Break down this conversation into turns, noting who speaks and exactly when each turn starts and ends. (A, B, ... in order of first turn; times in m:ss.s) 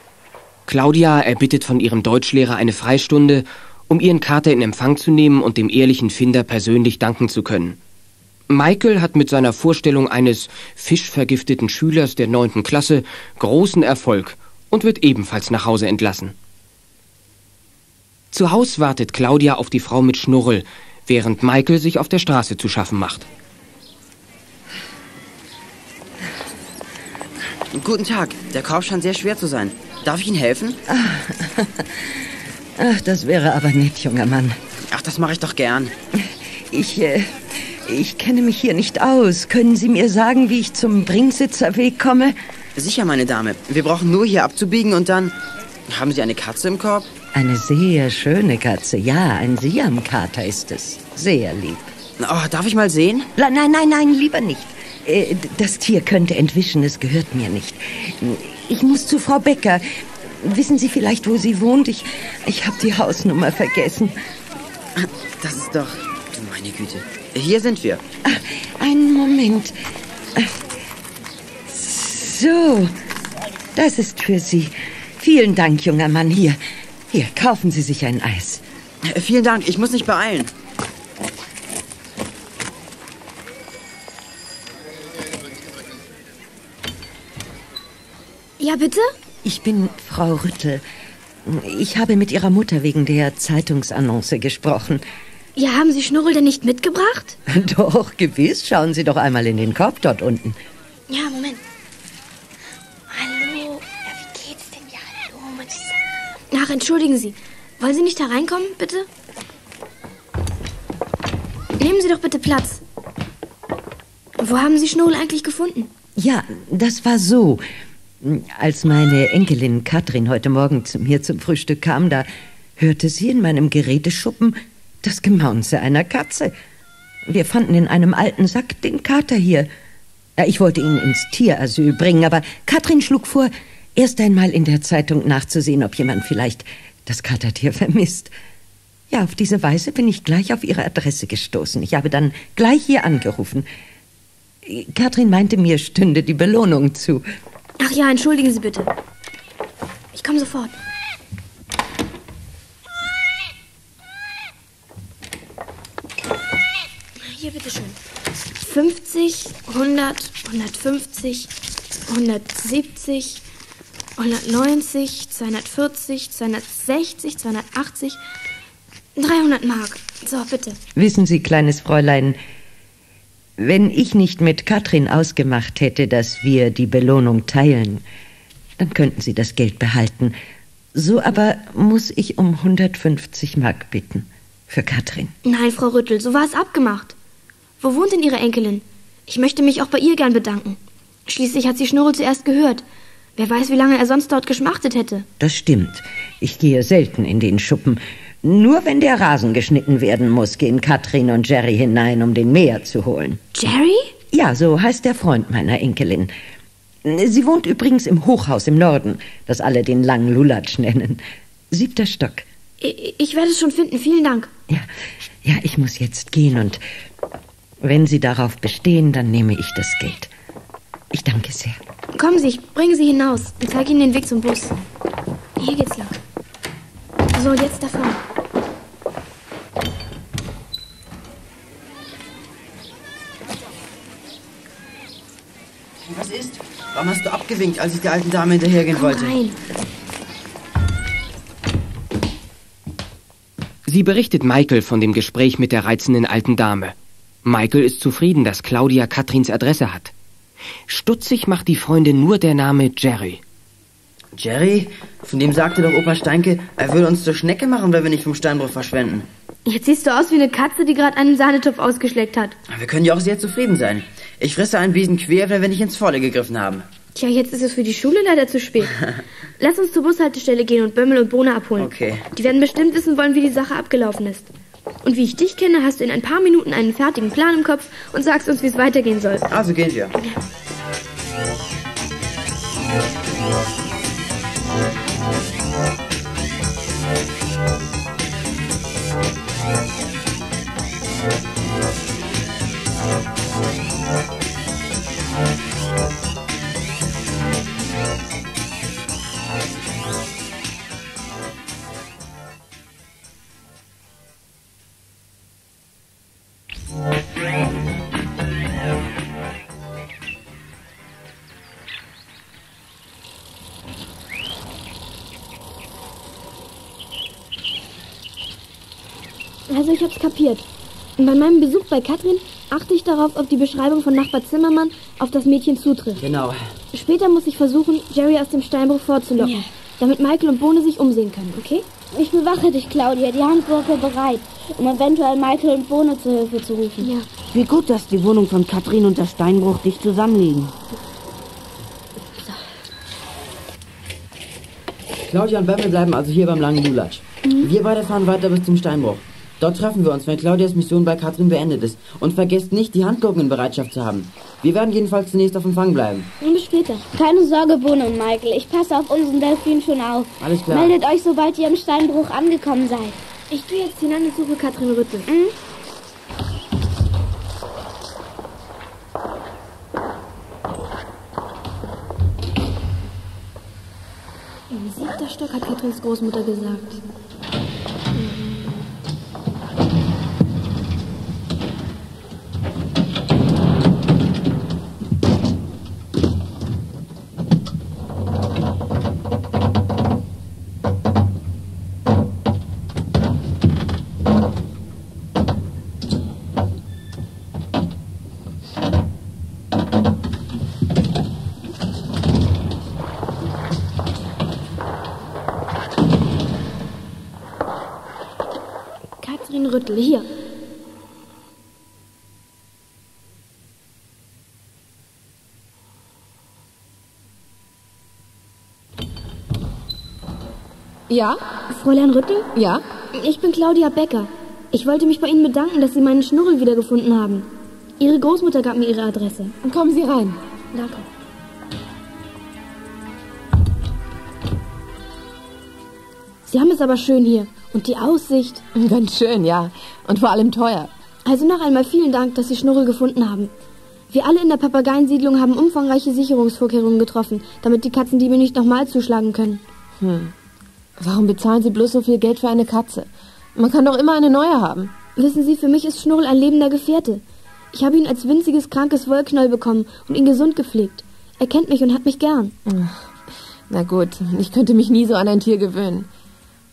0:00.7-0:07.8 A
0:08.5-0:16.3 A
0:18.3-0:23.3 A
0:27.7-0:30.8 B
0:30.9-0:34.6 C
0:34.9-0:35.9 B
0:36.2-0:42.4 C
0:42.7-0:45.3 B
0:45.9-0:47.1 B
0:47.3-0:51.9 C
0:52.2-0:53.3 B
0:53.4-1:04.2 C
1:05.0-1:08.0 B
1:08.2-1:09.8 C
1:11.7-1:12.9 C
1:13.7-1:16.6 C
1:17.1-1:18.6 C
1:19.0-1:20.5 B
1:28.6-1:29.1 D
1:29.4-1:30.8 C
1:31.4-1:35.0 C
1:35.6-1:37.4 D
1:37.5-1:40.6 C
1:41.1-1:41.6 D
1:43.1-1:46.0 D
1:46.5-1:49.1 D
1:51.8-1:52.8 D
1:54.4-1:55.9 D
1:56.2-1:57.6 C
1:58.2-2:06.5 C
2:07.3-2:09.7 C
2:10.4-2:18.3 C
2:19.1-2:23.7 C
2:24.6-2:27.2 C
2:27.8-2:28.9 D
2:30.1-2:30.7 D
2:37.2-2:38.0 D
2:38.6-2:41.5 D
2:42.1-2:43.4 D
2:44.2-2:48.2 D
2:49.2-2:50.8 D
2:50.9-2:52.4 C
2:53.6-2:58.0 C
2:58.8-3:00.3 C
3:00.9-3:05.3 C
3:05.4-3:07.1 D
3:07.8-3:12.8 D
3:13.4-3:15.2 D
3:15.4-3:23.4 C
3:23.5-3:24.1 D
3:24.3-3:26.3 C
3:27.0-3:32.5 C
3:32.8-3:34.5 D
3:35.4-3:36.8 C
3:37.8-3:40.3 C
3:41.1-3:41.8 C
3:42.1-3:44.8 D
3:45.6-3:46.1 D
3:47.3-3:48.2 D
3:56.0-3:59.4 B
3:58.9-3:59.6 D
4:03.8-4:10.1 A
4:10.9-4:13.4 A
4:14.4-4:19.3 B
4:19.6-4:22.6 D
4:22.7-4:26.8 B
4:27.1-4:28.9 D
4:29.6-4:34.5 D
4:31.8-4:32.2 B
4:35.0-4:39.4 D
4:39.5-4:40.2 B
5:19.7-5:20.7 D
5:21.2-5:26.2 D
5:26.2-5:26.6 B
5:26.9-5:31.8 D
5:29.4-5:29.7 E
5:32.1-5:37.1 E
5:37.0-5:37.3 D
5:37.5-5:40.8 F
5:45.3-5:56.3 B
5:56.4-5:57.0 D
5:57.1-6:03.2 E
6:00.4-6:00.9 B
6:03.5-6:05.3 D
6:05.3-6:05.5 E
6:14.7-6:17.0 D
6:18.1-6:18.5 D
6:49.2-6:50.3 D
7:01.1-7:01.4 G
7:01.7-7:02.5 D
7:02.5-7:02.8 G
7:03.1-7:09.5 D
7:09.6-7:10.4 G
7:10.7-7:11.1 D
7:16.4-7:18.6 D
7:18.7-7:20.9 G
7:21.2-7:23.5 D
7:24.1-7:29.6 D
7:30.0-7:30.3 G
7:31.0-7:34.9 G
7:35.2-7:42.5 D
7:42.6-7:43.0 G
7:43.7-7:46.1 G